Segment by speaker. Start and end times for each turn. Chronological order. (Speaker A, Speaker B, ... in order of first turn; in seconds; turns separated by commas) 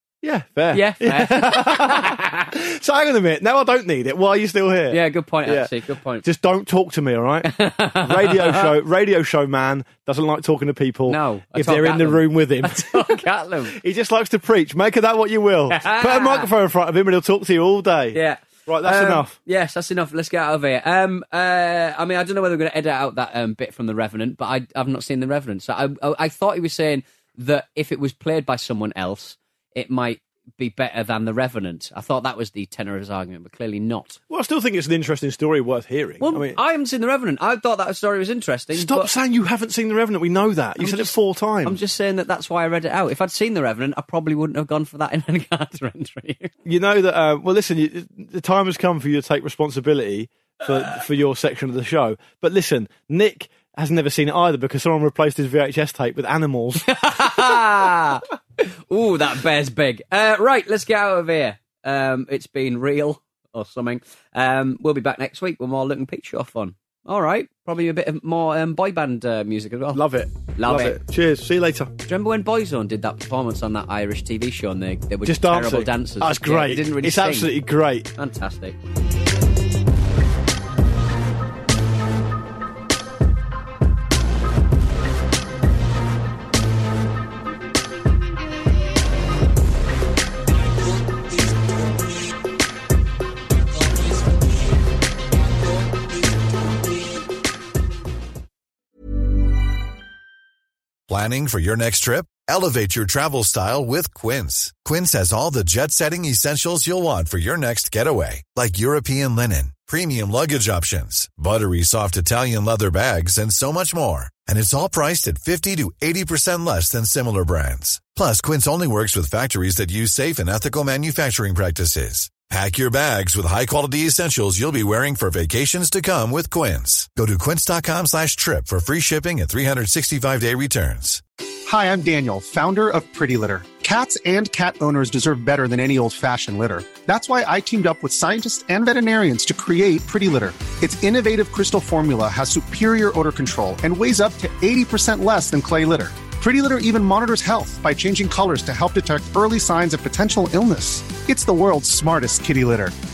Speaker A: 0.2-19.4, Speaker B: 0.7-2.5, Speaker B: 4.9-6.2, Speaker B: 7.5-8.7, Speaker B: 11.1-13.8, Speaker B: 15.7-16.5, Speaker B: 18.1-34.2, Speaker A: 34.3-36.6, Speaker B: 36.2-39.1, Speaker A: 38.7-41.8, Speaker B: 40.8-46.5, Speaker A: 46.6-56.9, Speaker B: 56.8-70.0, Speaker A: 69.9-71.9, Speaker B: 70.5-71.0, Speaker B: 72.0-77.5, Speaker A: 75.2-78.1, Speaker B: 78.2-78.8, Speaker C: 101.1-131.2, Speaker D: 131.7-152.9